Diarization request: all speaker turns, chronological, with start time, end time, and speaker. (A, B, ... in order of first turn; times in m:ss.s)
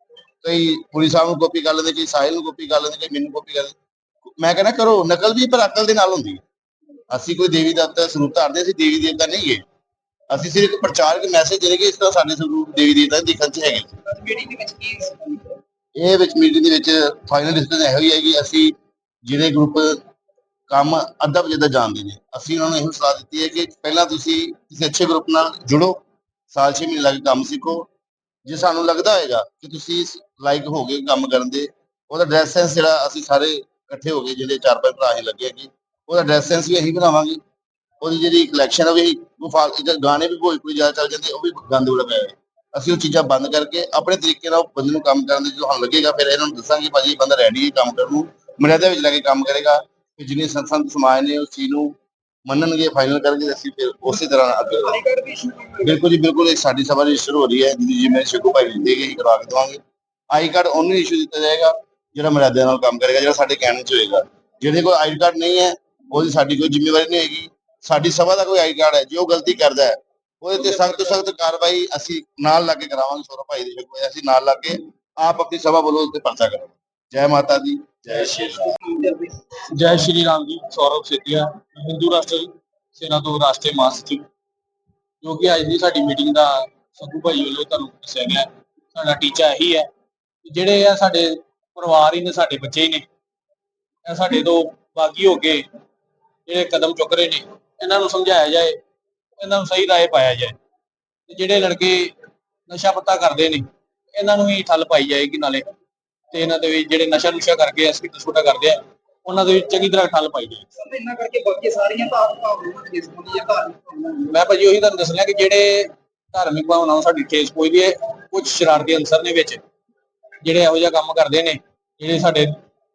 0:00.4-0:03.8 A
0:04.4-0:06.4 A
0:07.1-0:09.6 A
0:10.3-0:14.0 A
0:14.1-0:15.6 B
0:16.0-0:20.0 A
0:20.7-0:26.0 A
0:26.5-0:27.9 A
0:28.4-0:37.4 A
0:38.0-0:52.0 A
0:52.5-0:55.1 A
0:54.8-0:56.0 B
0:55.8-1:18.8 A
1:10.6-1:11.2 C
1:18.3-1:19.4 B
1:19.7-1:24.3 C
1:25.2-1:29.9 C
1:30.5-1:33.1 C
1:34.1-1:35.7 C
1:36.5-1:38.8 C
1:39.4-1:40.6 C
1:41.3-1:42.1 C
1:42.7-1:45.6 C
1:46.3-1:50.7 C
1:50.8-1:54.3 B
1:54.3-1:59.6 C
2:00.4-2:02.6 C